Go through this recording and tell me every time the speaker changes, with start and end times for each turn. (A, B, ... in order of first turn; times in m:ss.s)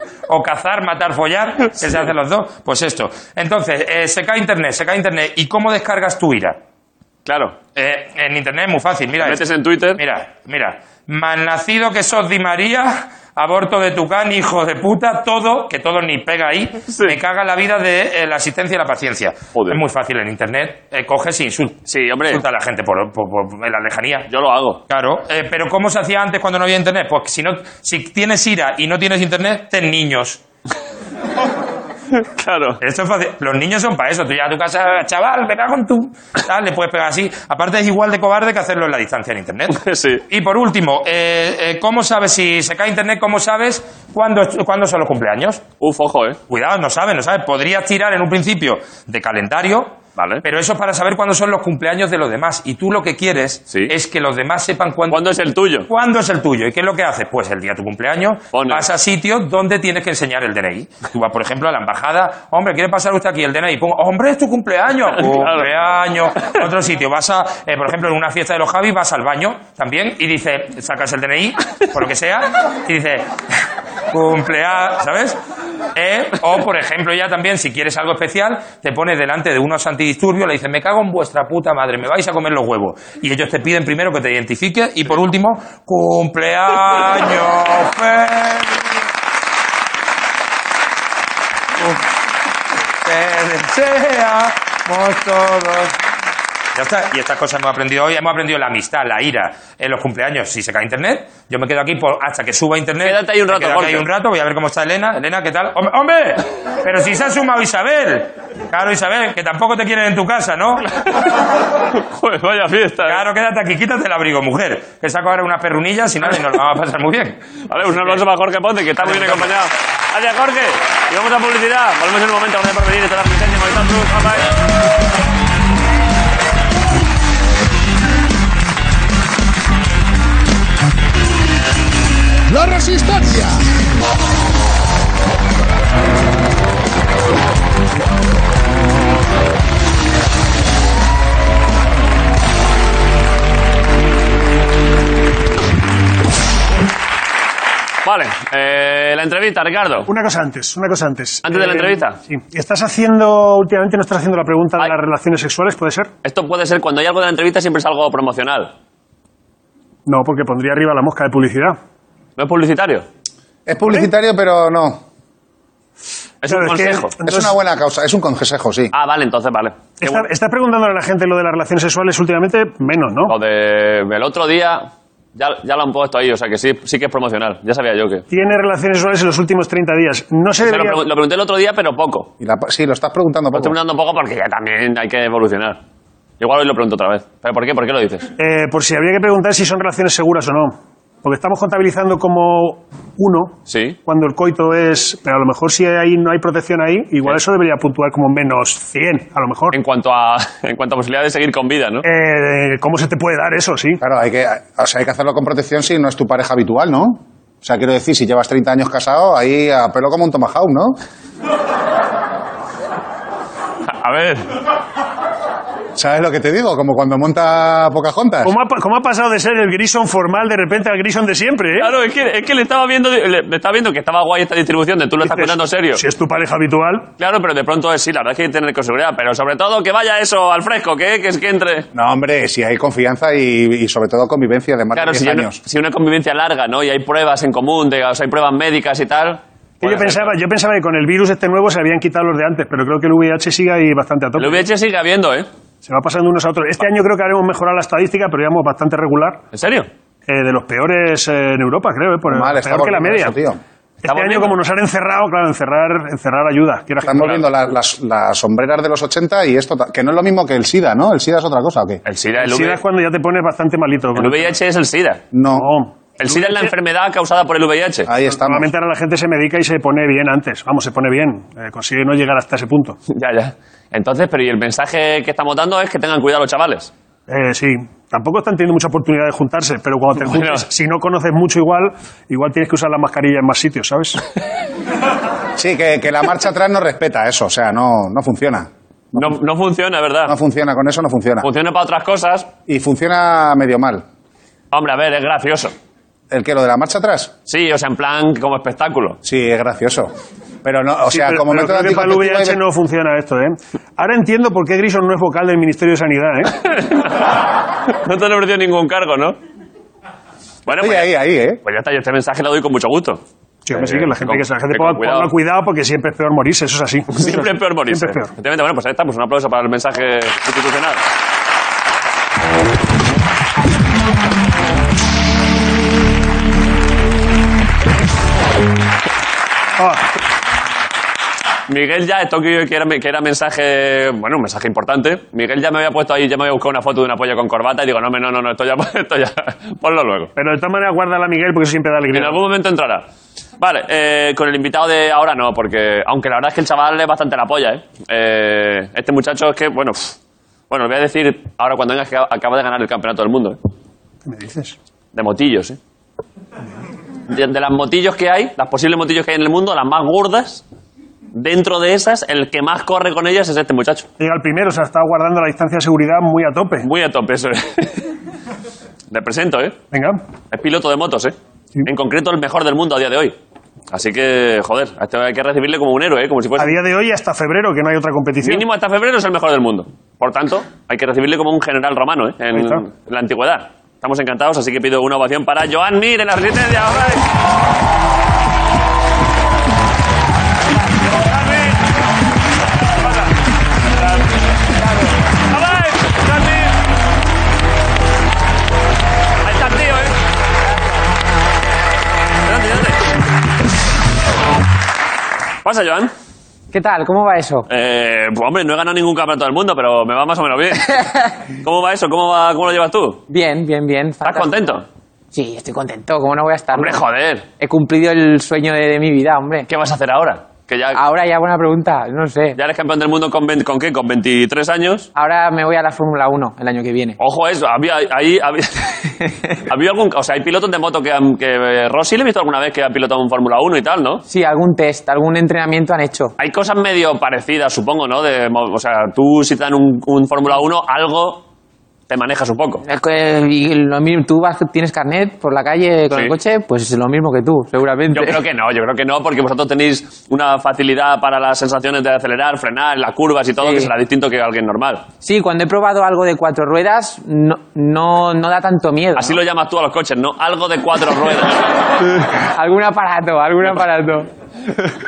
0:00.3-0:06.6 A
0:07.3-0:07.6 B
0:07.8-0:09.4 A
0:09.2-0:10.0 B
0:10.0-0:21.8 A
0:16.9-0:17.2 B
0:19.6-0:19.8 B
0:21.9-0:22.4 B
0:22.3-0:24.3 A
0:24.3-0:24.8 B
0:24.9-0:30.4 A
0:32.2-0:32.8 B
0:32.8-0:45.6 A
0:39.7-0:40.2 B
0:45.8-0:46.4 B
0:46.5-0:55.2 A
0:50.2-0:50.4 B
0:55.1-0:55.9 B
0:55.9-1:13.3 A
0:58.5-0:58.9 B
1:05.2-1:05.7 B
1:14.1-1:15.4 A
1:15.9-1:28.8 A
1:31.8-1:32.1 A
1:33.0-1:36.0 A
1:36.8-1:50.9 A
1:43.0-1:44.1 B
1:51.9-1:53.2 B
1:53.1-1:57.4 A
1:57.7-2:04.5 B
1:58.0-1:58.2 A
1:59.0-1:59.5 A
2:12.5-2:13.6 C
2:28.0-2:30.1 B
2:30.1-2:36.1 D
2:31.4-2:32.2 B
2:36.2-2:38.7 B
2:40.1-2:41.8 D
2:42.4-2:43.1 B
2:43.7-2:45.0 C
2:46.4-2:47.2 B
2:46.5-2:47.5 D
2:47.2-2:48.9 C
2:48.9-2:50.3 B
2:50.0-2:53.4 D
2:53.3-2:58.2 B
2:58.3-3:01.1 D
3:00.6-3:02.3 B
3:02.4-3:03.8 C
3:03.6-3:05.8 B
3:06.4-3:08.3 B
3:08.4-3:19.8 D
3:13.7-3:14.0 B
3:19.7-3:22.0 B
3:22.0-3:24.0 D
3:24.0-3:31.0 C
3:33.8-3:34.5 B
3:36.0-3:38.5 C
3:38.4-3:41.9 D
3:41.8-3:46.0 B
3:45.2-3:47.1 D
3:47.2-3:51.9 B
3:51.9-3:55.6 C
3:55.0-4:00.4 B
3:59.8-4:04.6 D
4:04.4-4:05.5 B
4:05.8-4:09.4 D
4:09.5-4:09.9 B
4:10.3-4:13.4 D
4:12.3-4:13.6 C
4:14.0-4:17.3 D
4:14.1-4:14.5 B
4:17.0-4:22.0 C
4:22.0-4:22.8 B
4:22.4-4:24.6 D
4:24.2-4:25.2 B
4:25.3-4:25.7 C
4:25.5-4:26.7 D
4:26.2-4:28.1 B
4:28.1-4:28.7 C
4:28.3-4:33.0 D
4:33.1-4:36.9 B
4:37.3-4:44.2 D
4:40.2-4:40.6 B
4:45.6-4:48.7 C
4:49.1-4:50.4 B
4:50.3-4:51.5 C
4:51.4-4:52.5 B
4:52.7-4:54.0 C
4:54.7-4:55.7 B
4:56.3-4:57.3 C
4:57.5-4:59.2 B
4:59.2-5:00.1 C
5:00.6-5:02.6 C
5:01.1-5:06.6 D
5:06.6-5:09.4 B
5:10.7-5:11.1 B
5:10.7-5:11.6 C
5:11.6-5:15.3 B
5:13.7-5:18.3 D
5:17.1-5:21.0 B
5:29.8-5:30.0 D
5:31.7-5:40.3 B
5:40.4-5:42.4 D
5:42.1-5:43.1 B
5:43.6-5:50.2 B
5:50.7-5:53.6 B
5:54.2-5:54.8 D
5:55.1-5:55.8 B
5:57.3-6:00.6 B
6:01.3-6:04.1 B
6:04.2-6:06.9 D
6:06.8-6:08.1 B
6:09.1-6:09.8 B
6:09.9-6:10.2 D
6:10.5-6:11.3 B
6:11.8-6:13.4 B
6:13.9-6:16.8 B
6:16.6-6:18.6 D
6:18.4-6:27.3 B
6:22.5-6:22.8 D
6:31.2-6:31.8 B
6:33.0-6:33.4 B
6:34.0-6:34.3 B
6:35.5-6:36.8 B
6:39.4-6:40.2 B
6:42.4-6:43.0 B
6:45.6-6:46.1 B
6:46.7-6:47.7 E
6:47.7-6:53.2 B
6:53.3-6:54.5 E
6:54.2-6:54.8 B
6:55.3-6:57.0 E
6:56.8-6:57.5 B
6:57.6-6:59.7 E
6:59.7-7:01.0 B
7:01.0-7:02.6 E
7:02.6-7:05.1 B
7:05.2-7:07.2 E
7:07.2-7:14.2 B
7:09.2-7:09.5 E
7:14.3-7:16.3 E
7:16.4-7:21.5 B
7:22.1-7:22.8 B
7:22.8-7:28.4 E
7:28.1-7:35.1 B
7:33.6-7:33.9 E
7:35.2-7:39.4 E
7:39.2-7:41.6 B
7:42.0-7:44.3 E